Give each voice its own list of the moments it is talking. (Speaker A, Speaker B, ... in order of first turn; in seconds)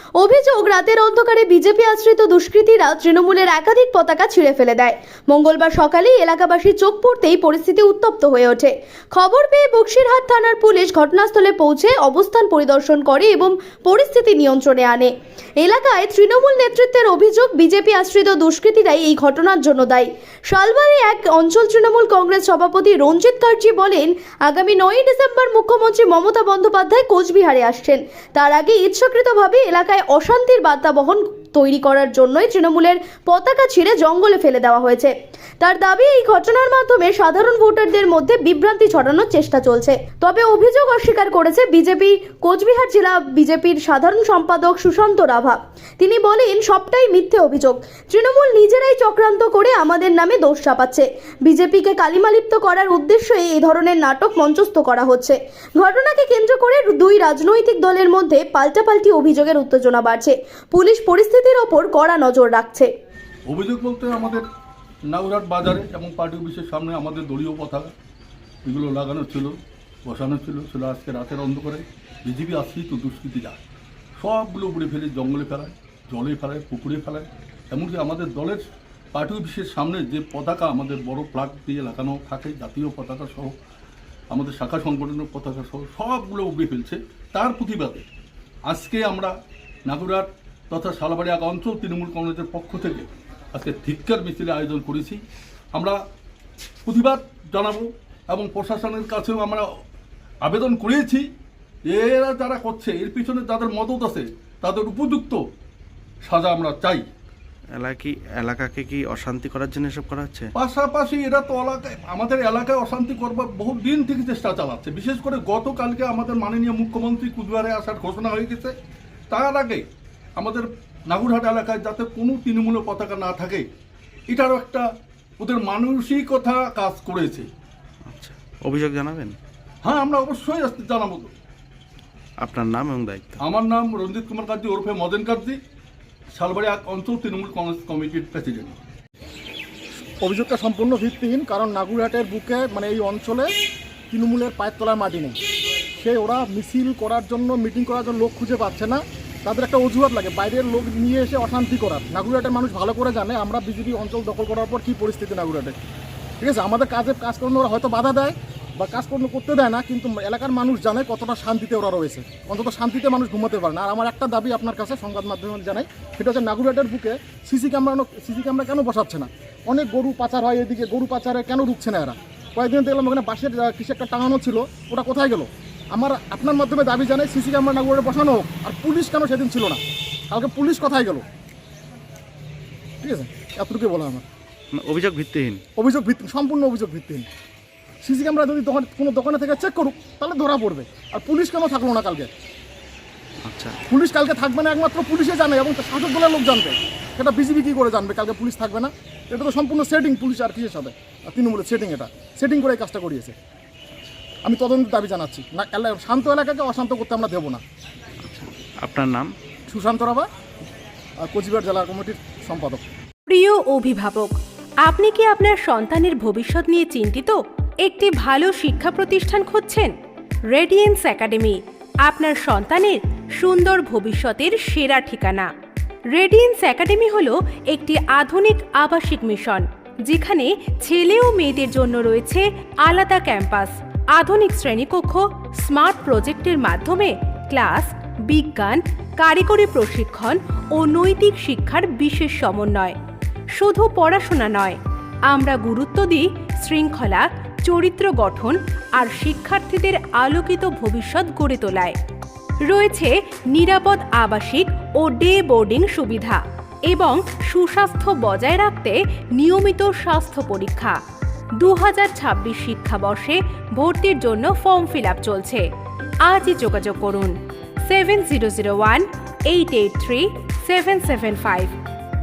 Speaker A: 0.2-62.9
Speaker B: 63.5-64.4, 65.1-67.9, 68.6-73.6, 74.2-83.5, 84.3-88.0, 88.7-89.3, 89.8-95.2, 95.7-96.0, 96.8-99.7, 100.4-101.3, 101.9-105.4, 106.2-107.0, 110.6-118.7, 119.3-119.8, 120.4-123.7, 124.3-124.9, 125.4-127.5, 129.8-131.3, 133.4-135.6, 136.3-138.8
Speaker C: 107.8-110.5, 128.1-129.3, 132.4-133.4, 184.7-185.6, 193.4-193.8, 208.2-209.3
Speaker D: 140.2-143.5, 144.1-145.4, 145.9-155.7, 156.4-181.2, 183.0-184.2, 185.8-187.2, 188.0-192.3, 193.9-203.3, 204.4-207.6, 209.7-210.3, 211.2-212.8
Speaker E: 213.3-219.9, 220.5-225.5, 226.1-242.9, 243.6-251.9, 252.7-261.0, 261.6-265.6, 266.2-271.7